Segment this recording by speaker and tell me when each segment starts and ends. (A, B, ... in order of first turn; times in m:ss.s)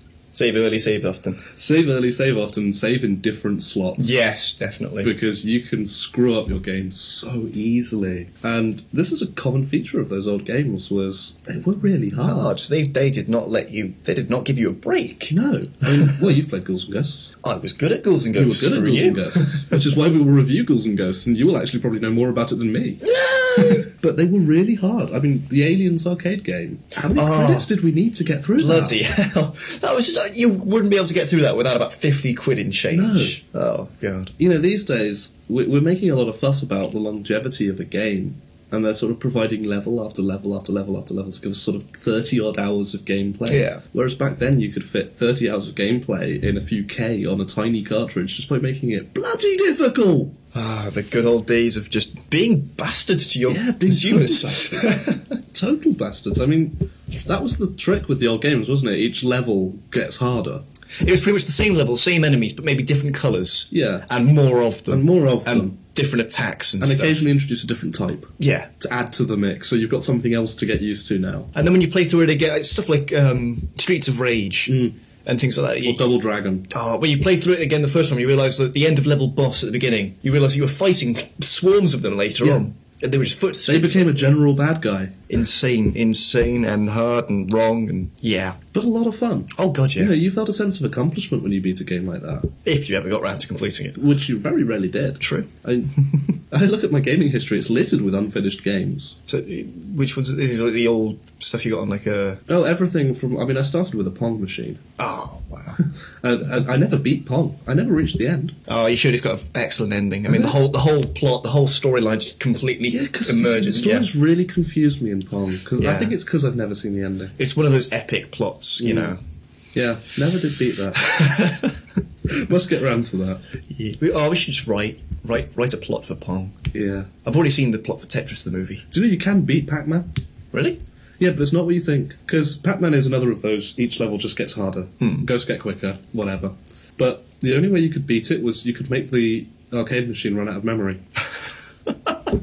0:00.3-0:01.4 A
0:01.5-0:04.2 B
0:04.0-0:05.1 A
0:05.0-0:12.5 B
0:12.2-0:15.3 A
0:15.3-0:17.3 B
0:17.4-0:19.8 A
0:18.4-0:23.0 B
0:23.0-0:23.9 A
0:23.6-0:29.0 B
0:27.1-0:27.7 A
0:28.6-0:34.3 A
0:32.9-0:33.4 B
0:34.4-0:50.4 B
0:43.5-0:43.8 A
0:50.5-0:55.2 A
0:53.5-1:00.6 B
1:01.0-1:07.2 A
1:03.7-1:04.1 B
1:04.9-1:05.8 B
1:06.8-1:11.5 B
1:08.4-1:08.7 A
1:11.6-1:16.0 A
1:14.7-1:15.0 B
1:15.8-1:16.7 B
1:16.7-1:24.3 A
1:23.7-1:25.2 B
1:25.3-1:28.6 A
1:28.7-1:32.5 B
1:29.6-1:30.1 A
1:32.6-1:34.0 A
1:34.0-1:39.2 B
1:35.2-1:35.5 A
1:39.3-1:42.4 A
1:42.5-1:44.8 B
1:45.0-1:45.8 A
1:45.8-1:48.6 B
1:48.7-1:54.1 A
1:52.9-1:57.4 B
1:55.8-1:56.2 A
1:57.4-1:59.2 A
1:58.8-1:59.1 B
1:59.8-2:01.4 B
2:01.0-2:01.8 A
2:02.3-2:03.4 B
2:03.7-2:06.6 A
2:06.7-2:07.1 B
2:07.2-2:08.8 A
2:08.9-2:10.1 B
2:10.5-2:10.8 A
2:11.2-2:21.0 B